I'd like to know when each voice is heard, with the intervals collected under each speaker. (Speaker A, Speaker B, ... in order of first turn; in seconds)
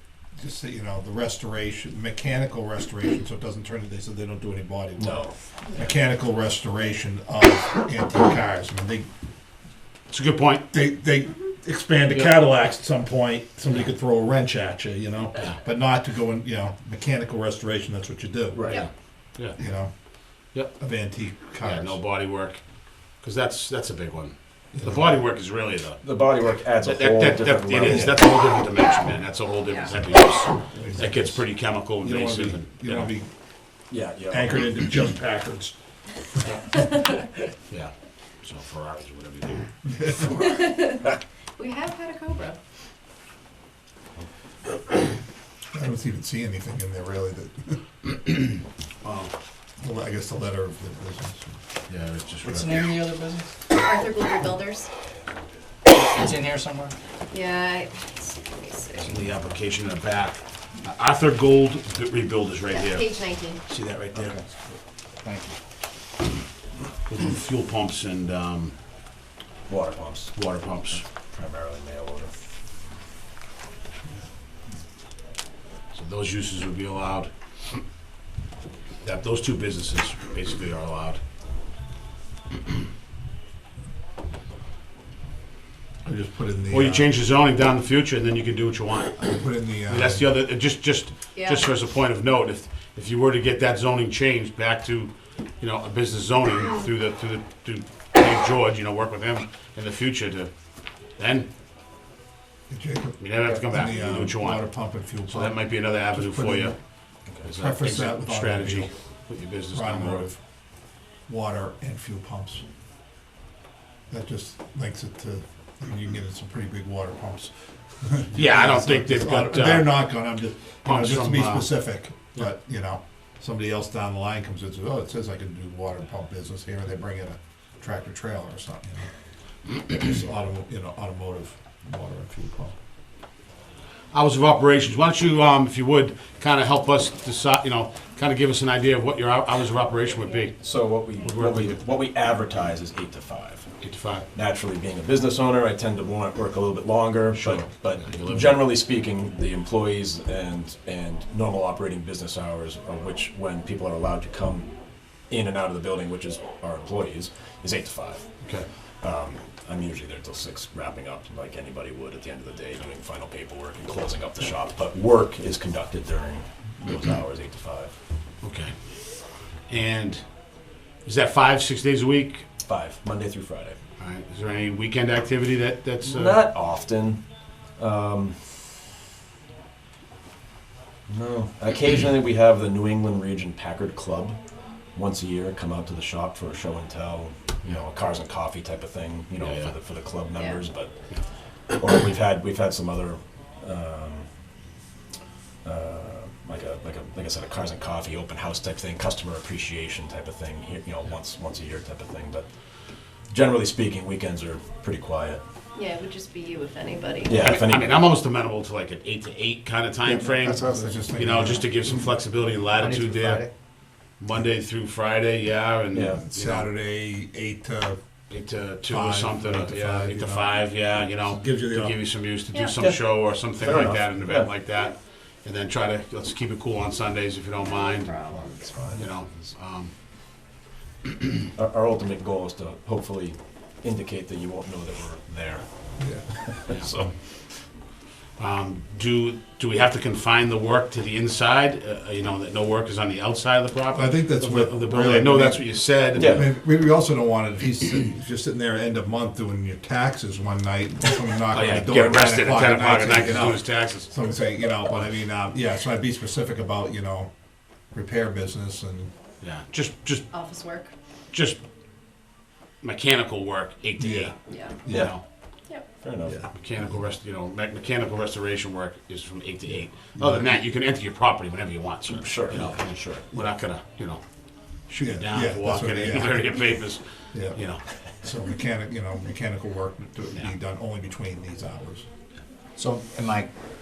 Speaker A: 0.4-9.1, 10.7-18.8, 19.5-19.9, 20.8-22.0, 24.7-25.1, 27.8-28.3, 30.7-33.3, 34.3-35.7, 39.9-40.3, 45.7-47.8, 49.8-51.6, 86.0-87.1, 89.2-90.2, 102.7-106.7, 107.5-108.9, 109.7-110.4, 111.3-112.6, 114.1-129.1, 129.7-132.7, 210.3-212.1, 216.1-218.0, 218.9-220.6, 221.2-222.0, 236.0-236.5, 243.9-245.7, 246.2-257.3, 257.9-259.1, 264.0-265.1, 269.7-270.4, 275.0-276.8, 277.3-277.6, 278.2-282.0
Speaker B: 5.0-5.3, 18.5-18.9, 26.0-28.2, 33.9-34.9, 63.7-64.4, 69.7-70.3, 71.2-72.3, 140.6-143.7, 144.3-154.7, 155.3-168.0, 172.6-173.8, 176.0-177.2, 177.8-178.6, 181.1-184.4, 184.9-190.9, 191.8-194.3, 195.6-202.5, 203.3-205.4, 207.2-208.1, 215.9-216.2, 222.8-224.5, 228.3-229.0, 231.5-235.7, 236.4-237.1, 246.1-246.5, 251.5-251.8, 264.9-265.2, 266.0-266.4, 272.1-272.9
Speaker C: 10.1-10.7, 12.1-12.3, 21.6-33.1, 37.7-39.7, 49.0-49.3, 51.9-53.0, 59.0-63.1, 67.1-68.7, 70.3-71.0, 75.9-77.3, 79.0-81.2, 86.7-100.5, 101.2-101.5, 103.2-106.7, 107.4-110.3, 118.3-120.2, 120.8-122.5, 134.1-140.5, 141.2-141.8, 143.8-144.3, 147.3-148.7, 158.4-158.7, 168.4-168.7, 169.7-170.2, 171.0-172.4, 174.0-176.5, 189.4-189.8, 207.3-213.4, 214.2-216.7, 218.3-228.2, 228.9-229.9, 238.4-246.5, 251.5-254.1, 259.4-260.2, 261.3-261.6, 262.8-264.3, 264.9-265.2, 266.5-274.2, 274.9-277.8
Speaker D: 40.3-42.6, 53.7-54.9, 57.3-59.2, 62.7-63.6, 91.3-91.7, 190.3-190.6, 205.7-207.5, 222.5-222.8, 227.6-228.7, 260.3-260.9, 264.5-264.8
Speaker E: 52.4-53.5, 55.9-56.9, 64.1-64.5, 65.2-65.5, 210.1-210.9, 212.7-213.5, 282.8-283.5